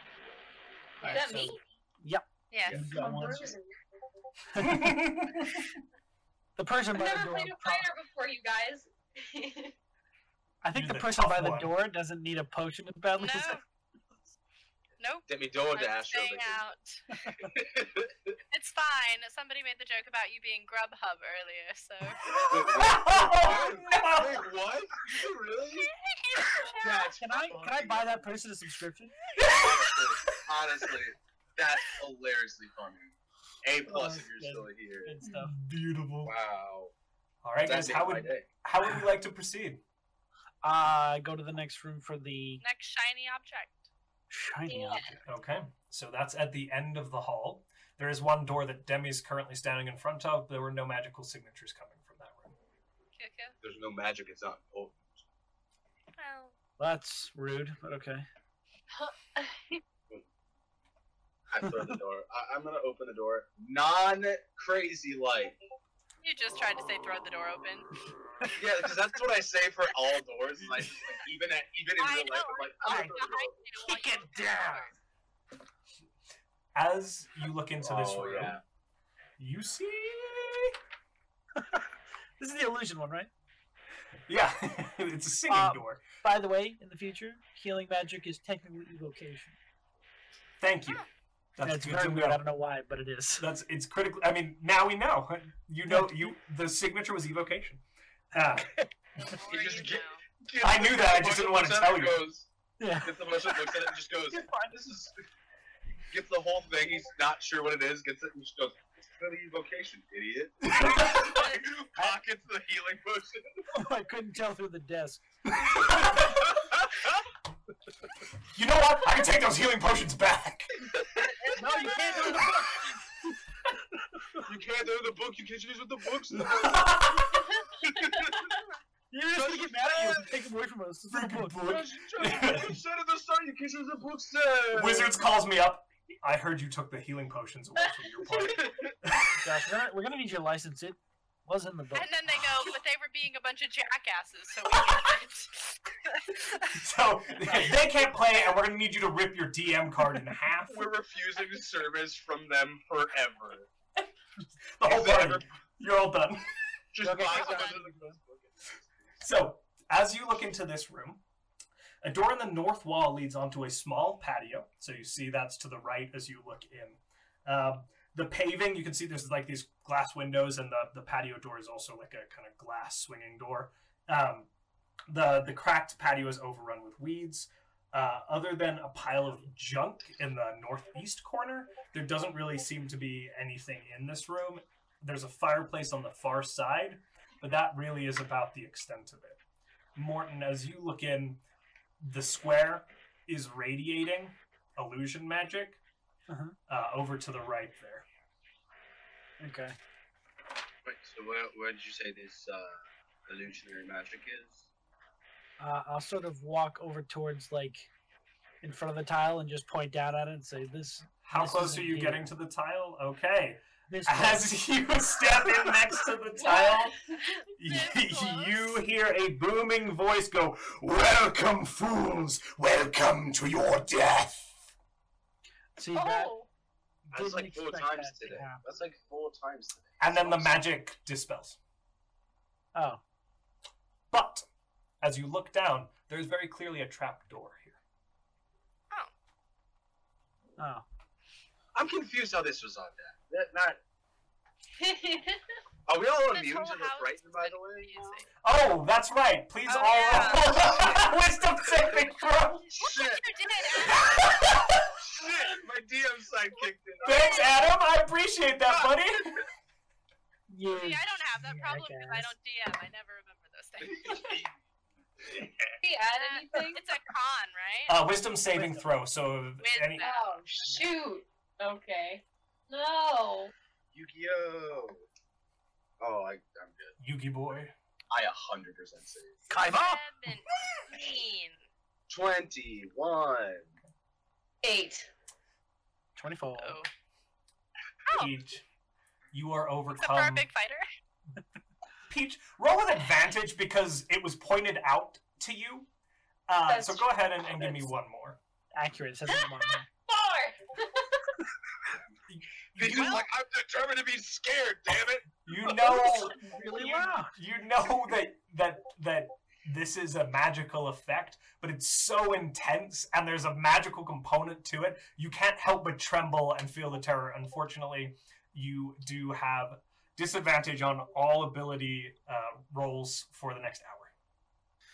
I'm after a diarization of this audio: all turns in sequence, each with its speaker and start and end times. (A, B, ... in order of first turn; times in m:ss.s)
0:01.0-0:01.6 A
0:01.0-0:03.5 B
0:02.5-0:03.1 C
0:02.6-0:02.9 D
0:02.9-0:03.7 A
0:04.5-0:04.9 B
0:04.6-0:05.7 E
0:06.6-0:07.9 B
0:06.9-0:09.7 A
0:10.6-0:13.6 B
0:10.7-0:11.7 E
0:13.2-0:13.6 C
0:15.0-0:17.0 C
0:15.3-0:16.6 D
0:17.1-0:17.5 B
0:17.4-0:18.4 D
0:18.5-0:22.2 C
0:22.2-0:24.4 E
0:22.5-0:25.9 D
0:25.8-0:27.1 C
0:26.8-0:28.3 D
0:27.2-0:29.2 B
0:29.4-0:29.8 E
0:29.4-0:35.2 D
0:33.8-0:35.6 B
0:35.2-0:36.3 E
0:36.2-0:36.9 D
0:37.4-0:39.8 E
0:37.6-0:38.5 D
0:40.6-0:42.6 B
0:42.6-0:43.9 C
0:44.3-0:45.1 B
0:44.7-0:45.2 A
0:45.2-0:52.5 E
0:53.2-0:53.5 C
0:53.6-0:55.2 D
0:56.2-0:56.5 C
0:56.8-0:58.2 B
0:58.9-0:59.8 A
1:01.5-1:05.6 D
1:01.6-1:01.9 B
1:06.2-1:07.9 C
1:08.5-1:13.6 D
1:12.0-1:14.9 C
1:13.8-1:14.9 B
1:16.7-1:18.6 E
1:17.8-1:18.6 D
1:19.4-1:20.7 E
1:21.6-1:23.3 B
1:24.3-1:26.0 E
1:25.5-1:29.6 B
1:30.6-1:31.0 E
1:31.6-1:32.4 E
1:31.6-1:33.5 B
1:33.4-1:38.7 E
1:35.9-1:36.4 B
1:38.5-1:38.9 B
1:39.2-1:40.2 C
1:39.5-1:42.5 D
1:40.6-1:42.3 E
1:42.8-1:44.7 B
1:43.0-1:45.2 D
1:45.9-1:53.9 D
1:50.7-1:51.3 E
1:53.7-1:55.3 B
1:55.5-1:56.4 E
1:56.0-1:57.2 D
1:58.5-2:00.9 E
2:00.9-2:02.5 D
2:01.5-2:02.9 B
2:03.6-2:04.4 B
2:04.4-2:07.0 D
2:06.3-2:07.5 E
2:07.8-2:08.5 D
2:09.1-2:11.8 B
2:09.3-2:10.4 D
2:11.1-2:12.8 E
2:11.6-2:15.2 D
2:14.7-2:19.4 E
2:18.4-2:18.9 D
2:19.4-2:22.1 B
2:21.9-2:26.8 C
2:26.7-2:30.9 E
2:30.7-2:33.7 D
2:34.8-2:36.5 E
2:34.8-2:35.4 D
2:36.9-2:39.2 D
2:37.0-2:38.1 B
2:37.2-2:37.8 C
2:39.2-2:41.2 E
2:42.0-2:54.5 E
2:55.1-3:09.4 E
3:09.9-3:11.4 E
3:12.0-3:15.8 E
3:16.3-3:16.6 B
3:16.7-3:18.0 E
3:19.4-3:19.7 B
3:20.8-3:24.7 D
3:25.6-3:27.9 B
3:28.6-3:32.2 B
3:31.2-3:37.0 E
3:33.9-3:34.5 B
3:35.4-3:35.7 B
3:36.4-3:37.4 A
3:37.6-3:44.7 E
3:37.6-3:38.8 C
3:45.8-3:46.3 B
3:45.9-3:46.5 A
3:47.1-3:50.6 D
3:47.1-3:48.6 B
3:50.0-3:51.6 E
3:52.7-3:53.0 B
3:54.1-3:54.4 E
3:55.0-3:57.8 E
4:00.6-4:00.8 B
4:01.7-4:03.8 D
4:04.8-4:05.4 A
4:05.9-4:08.2 D
4:06.3-4:08.3 C
4:08.4-4:12.7 E
4:09.6-4:11.0 C
4:12.7-4:13.3 D
4:12.8-4:14.2 C
4:13.8-4:15.0 E
4:14.9-4:17.6 D
4:17.0-4:19.4 E
4:20.5-4:22.3 B
4:20.7-4:24.4 C
4:23.8-4:24.6 D
4:25.2-4:25.8 D
4:25.8-4:26.8 A
4:26.2-4:28.0 C
4:27.9-4:30.0 E
4:29.6-4:30.2 C
4:30.0-4:33.5 A
4:33.9-4:35.0 D
4:36.0-4:36.9 D
4:37.0-4:37.7 E
4:38.1-4:39.5 D
4:39.5-4:40.0 B
4:39.5-4:41.6 C
4:42.1-4:43.7 D
4:44.6-4:45.1 A
4:46.2-4:46.8 B
4:46.6-4:46.9 C
4:48.1-4:48.3 C
4:48.1-4:48.6 E
4:49.3-4:50.5 E
4:50.0-4:50.8 C
4:52.1-4:55.9 E
4:56.5-4:58.4 E
4:56.6-4:57.9 A
4:58.8-4:59.9 B
5:00.1-5:01.3 A
5:02.3-5:03.3 E
5:02.8-5:05.3 D
5:03.0-5:03.2 C
5:05.4-5:24.1 E
5:05.9-5:06.4 A
5:06.0-5:07.4 B